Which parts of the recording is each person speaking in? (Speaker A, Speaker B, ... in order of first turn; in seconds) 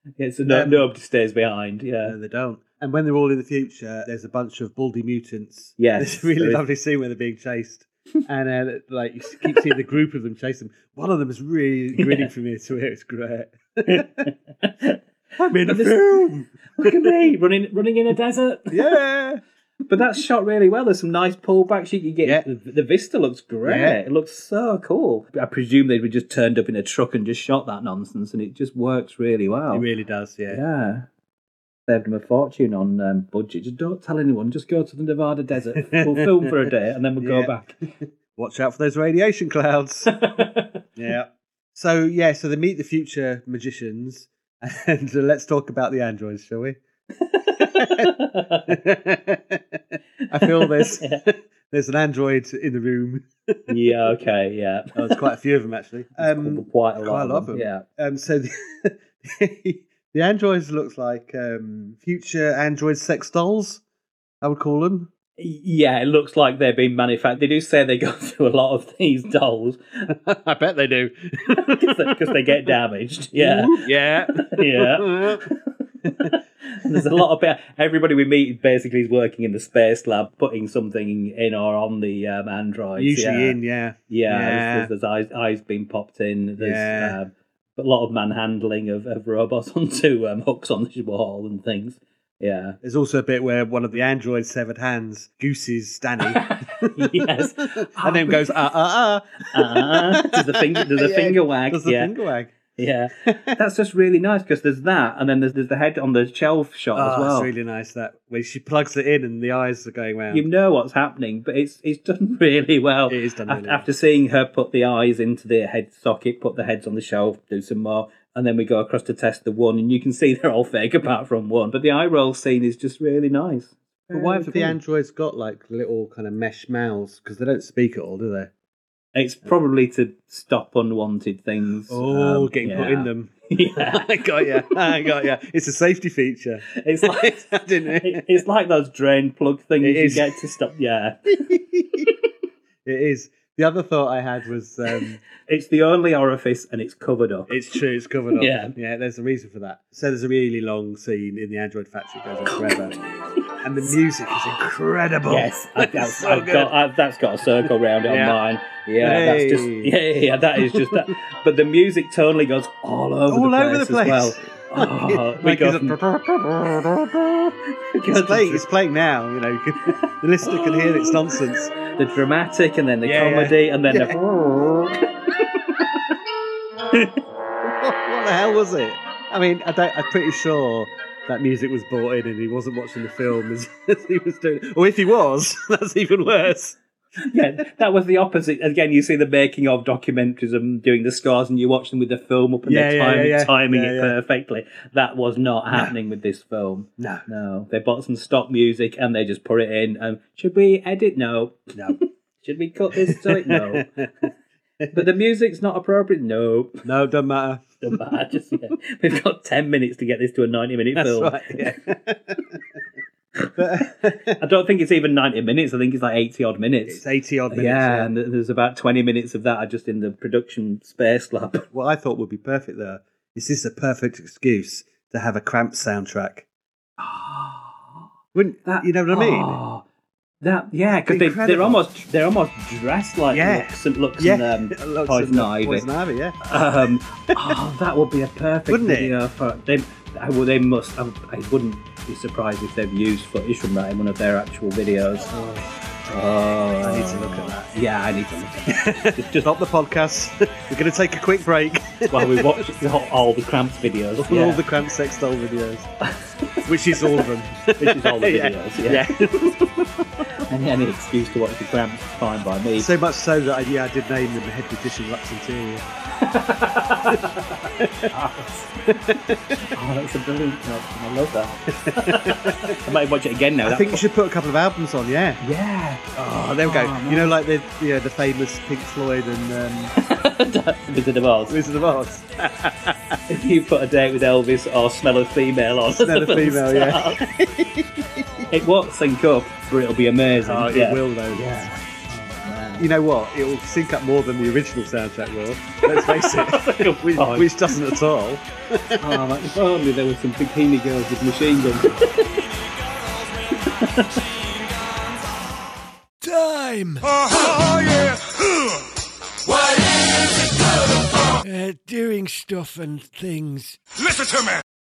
Speaker A: 0.2-2.1, 5.8-6.6, 12.0-12.3, 13.9-15.0, 15.6-16.1, 16.7-18.9, 19.9-29.9, 30.5-31.1, 31.9-37.9, 40.1-40.8, 47.3-48.8, 50.3-51.2, 53.7-55.1, 56.2-57.8, 65.4-70.1, 71.6-73.9, 74.4-83.6, 84.1-92.8, 96.3-98.5, 99.5-102.1, 102.8-107.5, 110.3-124.8, 129.2-134.1, 136.8-141.4, 145.4-147.6, 148.4-148.8, 155.3-166.0, 167.9-168.7, 170.4-171.2, 171.9-174.2, 176.9-177.2, 187.2-203.9, 204.9-206.8, 207.8-211.7, 214.4-221.7, 227.0-228.0, 228.7-229.8, 230.4-235.9, 236.4-245.3, 246.1-249.5, 252.1-254.6, 257.8-259.3, 260.5-262.9, 266.2-267.3, 268.1-268.9, 269.6-274.0, 275.4-277.4, 280.0-281.6, 283.3-287.2, 288.5-292.9, 295.9-297.6, 299.0-302.3, 303.8-304.2
Speaker B: 0.5-0.9, 2.0-14.3, 15.4-17.1, 18.7-19.4, 23.6-24.0, 29.7-30.6, 35.8-36.6, 37.2-40.1, 41.0-46.8, 47.6-48.1, 48.7-53.9, 55.0-63.8, 64.4-65.1, 70.1-72.5, 73.3-75.5, 76.0-76.3, 83.0-84.9, 86.6-87.2, 92.8-102.7, 103.2-103.5, 106.9-110.5, 113.1-113.9, 124.1-128.5, 131.9-138.4, 139.8-140.3, 141.5-142.1, 142.8-145.2, 147.5-153.0, 153.6-156.7, 158.1-158.4, 159.0-160.0, 160.6-161.1, 163.3-167.5, 168.1-171.7, 173.0-174.9, 177.6-186.8, 192.7-194.2, 197.0-197.2, 202.9-204.3, 206.8-207.9, 210.9-212.8, 213.6-214.4, 216.9-218.1, 221.7-226.4, 228.3-229.6, 231.1-231.8, 233.3-236.5, 238.7-239.2, 245.3-245.7, 246.8-247.7, 248.7-252.6, 254.2-255.9, 256.6-259.9, 262.8-265.9, 267.8-268.1, 268.9-269.4, 271.7-272.8, 273.6-275.4, 276.1-279.9, 281.5-283.2, 285.9-288.5, 290.3-291.6, 292.8-299.2
Speaker C: 306.2-308.4, 309.5-314.6